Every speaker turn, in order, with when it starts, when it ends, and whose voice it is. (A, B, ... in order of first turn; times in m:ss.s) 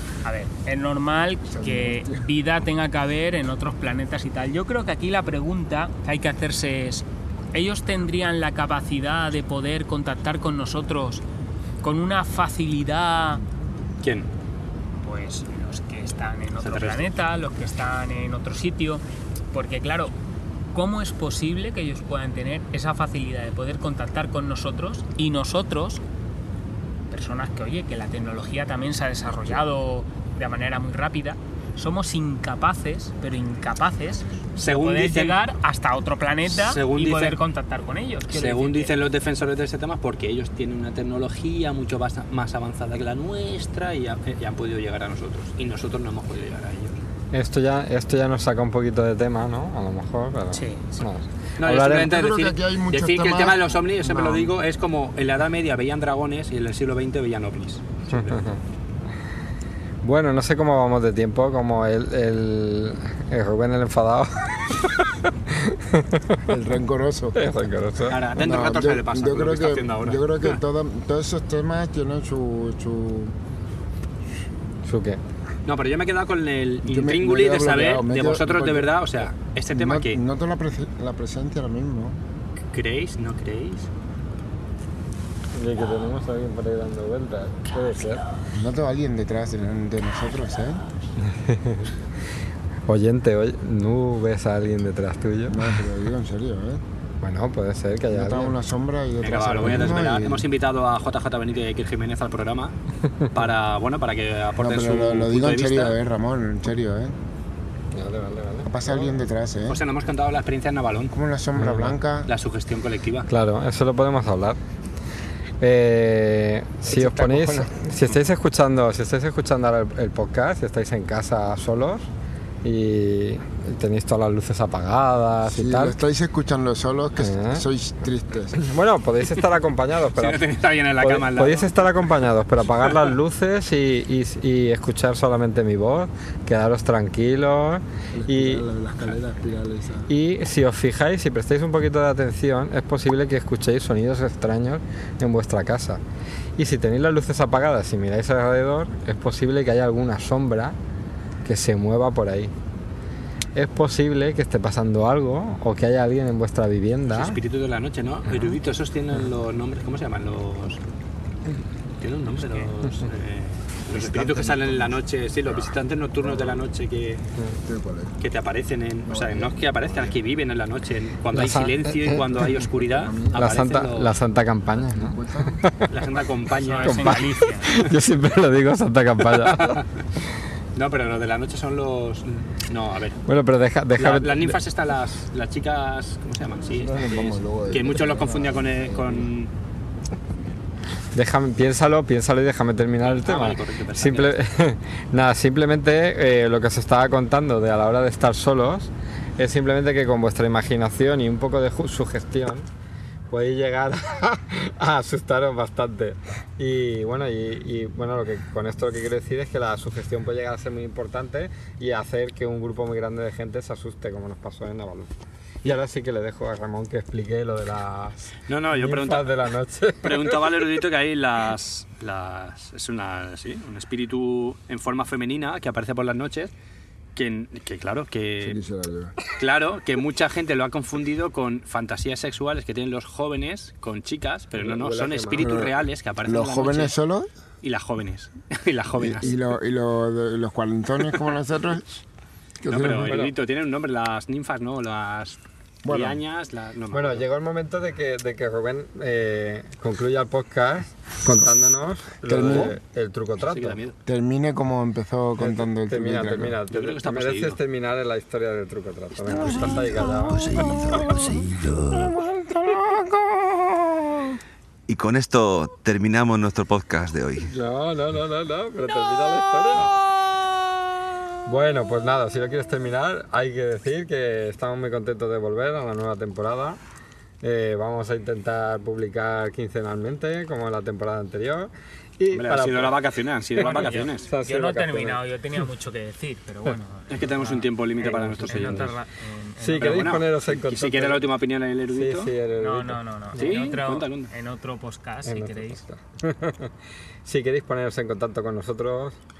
0:00.2-0:11.2 A
0:01.5-0:02.2 B
0:11.8-0:13.4 A
0:14.0-0:14.3 C
0:15.0-0:20.1 A
0:16.6-0:17.1 C
0:20.7-0:26.0 A
0:27.1-0:39.0 A
0:34.6-0:35.4 C
0:36.5-0:37.4 C
0:38.3-0:47.0 C
0:47.3-0:52.1 D
0:50.5-0:51.1 A
0:51.6-0:58.2 C
0:52.0-0:54.5 B
0:58.1-0:58.6 D
1:00.0-1:06.4 D
1:06.5-1:07.4 B
1:07.3-1:08.2 D
1:08.1-1:10.6 C
1:08.4-1:13.4 B
1:14.8-1:15.2 D
1:15.6-1:20.2 C
1:16.8-1:22.2 B
1:22.7-1:23.9 C
1:25.5-1:28.2 D
1:28.5-1:30.8 B
1:31.2-1:31.9 D
1:32.8-1:35.7 D
1:35.5-1:36.8 B
1:37.2-1:38.6 D
1:38.1-1:40.4 B
1:39.2-1:42.7 C
1:43.3-1:46.0 C
1:44.6-1:47.1 B
1:47.9-1:49.2 D
1:48.7-1:49.8 B
1:49.7-1:51.1 C
1:51.1-1:52.3 B
1:51.6-1:52.0 D
1:52.3-1:53.3 C
1:53.3-1:54.6 D
1:55.6-2:02.0 D
1:56.9-1:57.7 B
2:02.6-2:06.0 D
2:05.5-2:08.6 B
2:07.2-2:07.6 D
2:08.6-2:10.4 D
2:10.1-2:11.9 C
2:11.0-2:18.6 D
2:18.1-2:20.1 B
2:20.1-2:26.0 D
2:26.6-2:30.8 D
2:31.4-2:32.5 D
2:33.5-2:37.4 D
2:37.1-2:40.8 C
2:38.3-2:38.6 D
2:42.0-2:47.2 C
2:43.9-2:44.7 D
2:44.3-2:44.6 B
2:46.2-2:46.6 B
2:47.6-2:48.1 B
2:48.2-2:54.1 C
2:49.1-2:50.2 B
2:51.3-2:52.2 D
2:52.1-2:53.8 B
2:53.3-2:55.9 D
2:54.8-2:55.6 B
2:55.9-2:57.2 C
2:56.5-2:57.7 A
2:56.8-2:59.8 D
2:59.4-2:59.9 C
3:00.8-3:03.2 C
3:03.2-3:04.6 D
3:04.0-3:09.5 C
3:06.7-3:09.3 B
3:11.1-3:22.7 D
3:13.0-3:14.3 C
3:23.3-3:35.1 D
3:35.6-3:40.6 D
3:38.5-3:39.4 C
3:40.0-3:46.5 C
3:47.2-3:48.6 C
3:48.4-3:49.2 B
3:49.2-3:56.9 C
3:54.6-3:55.7 D
3:55.4-3:55.7 B
3:56.2-3:57.3 B
3:57.6-3:59.4 C
3:59.0-4:01.9 B
4:02.6-4:03.2 B
4:02.7-4:07.2 C
4:02.7-4:03.4 D
4:05.8-4:06.2 B
4:06.9-4:13.8 D
4:12.3-4:12.7 B
4:12.4-4:12.8 C
4:13.4-4:14.0 C
4:14.0-4:16.6 B
4:15.4-4:20.6 D
4:16.7-4:17.6 C
4:19.2-4:24.4 B
4:20.3-4:21.9 E
4:24.9-4:27.5 E
4:27.5-4:30.0 D
4:31.4-4:36.8 D
4:37.4-4:43.0 D
4:42.3-4:44.3 C
4:43.6-4:45.2 D
4:43.6-4:50.0 A
4:47.1-4:48.9 C
4:48.0-4:48.9 D
4:49.6-4:51.3 D
4:49.7-4:52.3 C
4:51.9-4:53.7 D
4:52.6-4:55.8 A
4:53.4-4:54.3 C
4:55.2-4:56.7 D
4:57.2-4:59.2 D